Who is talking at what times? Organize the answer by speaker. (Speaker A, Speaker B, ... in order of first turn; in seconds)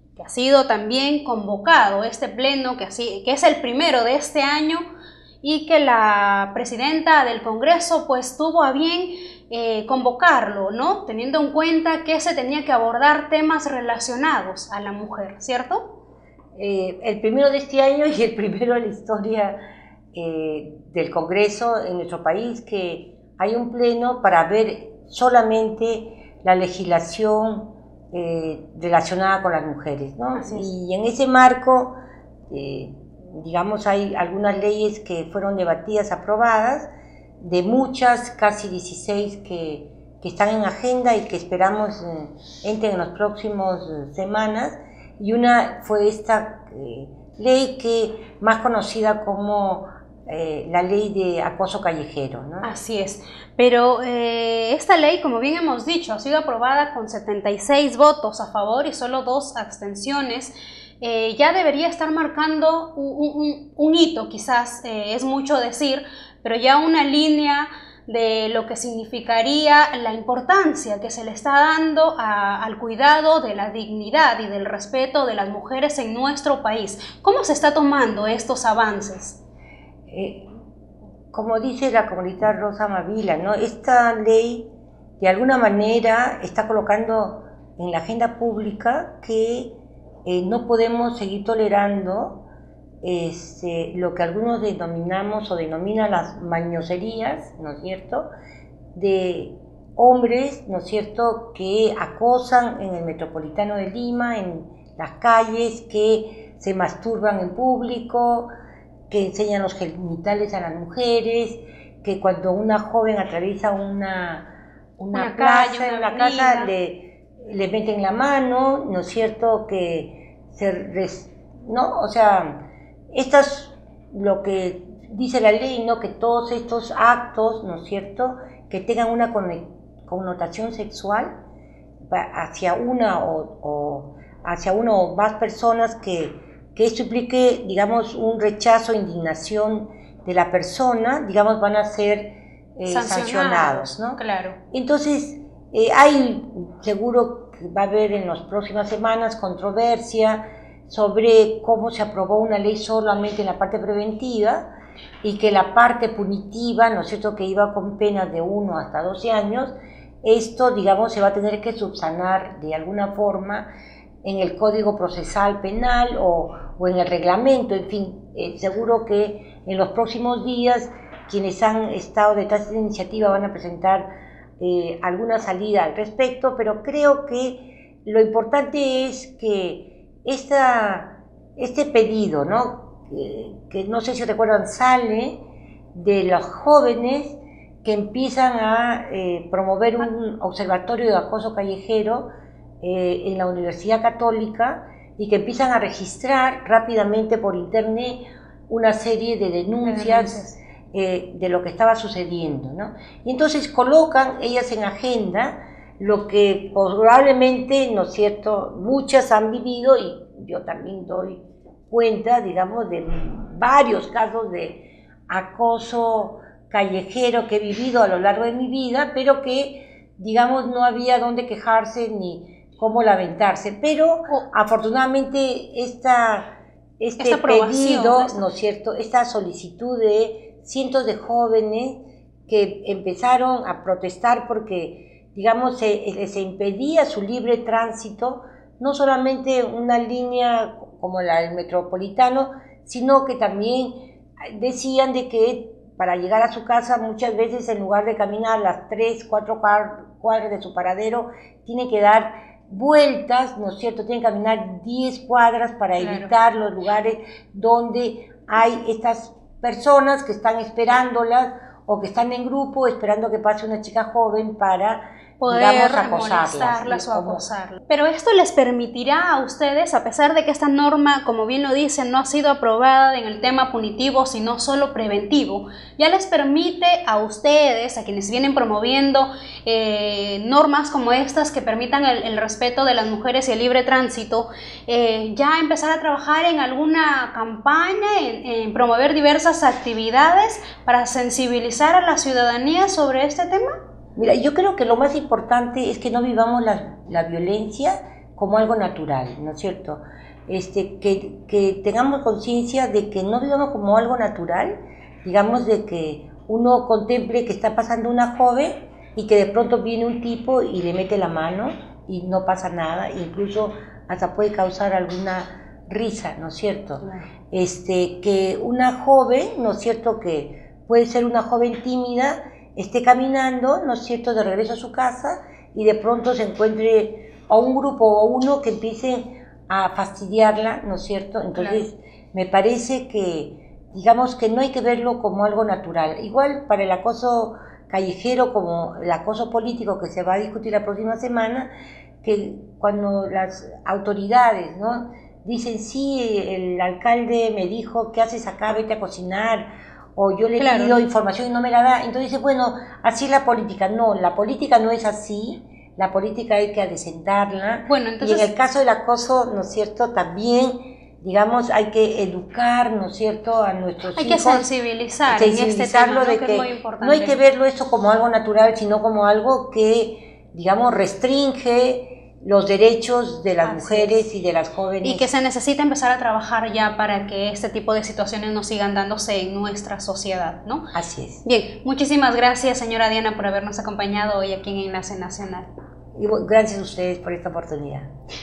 Speaker A: 0.2-4.8, 5.4-15.9, 30.4-30.7, 52.6-79.4, 115.1-116.7, 142.9-144.6, 199.8-200.6, 227.2-228.4, 256.0-256.3, 265.4-293.8, 317.0-317.3, 331.6-331.8, 350.6-351.0, 357.9-358.5, 364.1-367.4, 373.6-374.2, 375.0-380.9, 381.4-385.7
Speaker B: 16.6-19.6, 20.1-32.0, 32.5-36.9, 37.4-52.7, 80.1-80.5, 81.3-84.7, 85.2-92.5, 93.0-98.3, 98.9-108.5, 109.1-131.3, 132.1-144.2, 144.7-154.7, 155.2-163.7, 164.2-174.1, 174.6-185.4, 185.9-192.3, 192.8-267.4, 294.2-341.7, 342.2-364.7, 365.3-375.3, 380.9-381.4, 386.1-388.1